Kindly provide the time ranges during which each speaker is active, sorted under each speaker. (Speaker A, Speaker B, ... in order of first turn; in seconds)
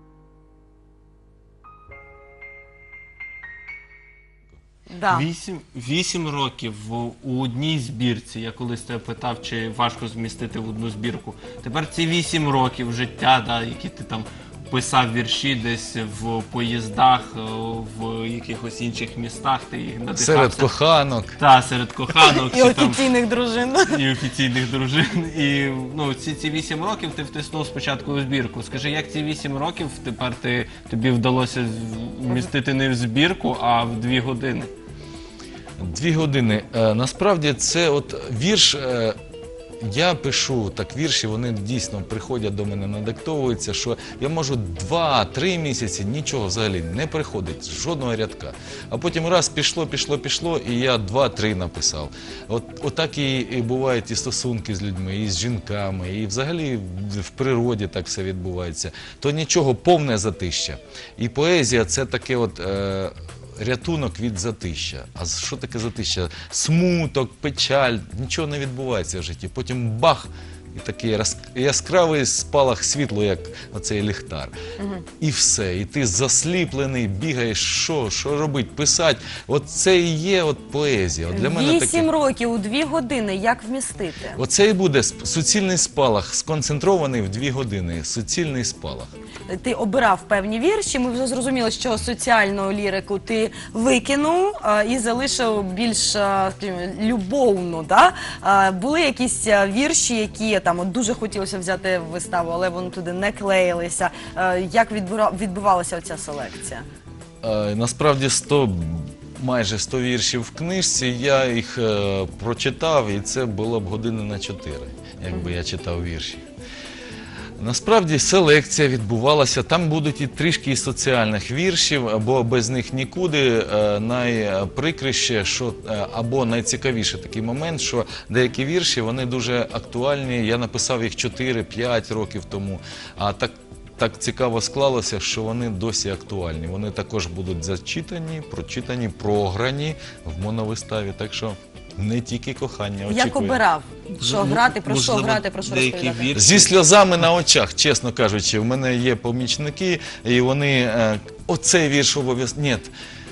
Speaker A: 4.9-5.3, 22.1-24.0, 74.8-75.0, 81.3-84.4, 89.5-106.8, 143.1-146.3
Speaker B: 5.1-20.7, 21.4-23.0, 23.9-34.7, 144.2-146.7
Speaker C: 20.1-21.4, 35.8-39.1, 39.8-74.5, 75.2-82.1, 84.3-89.1, 107.4-116.4, 117.6-143.6, 146.3-152.9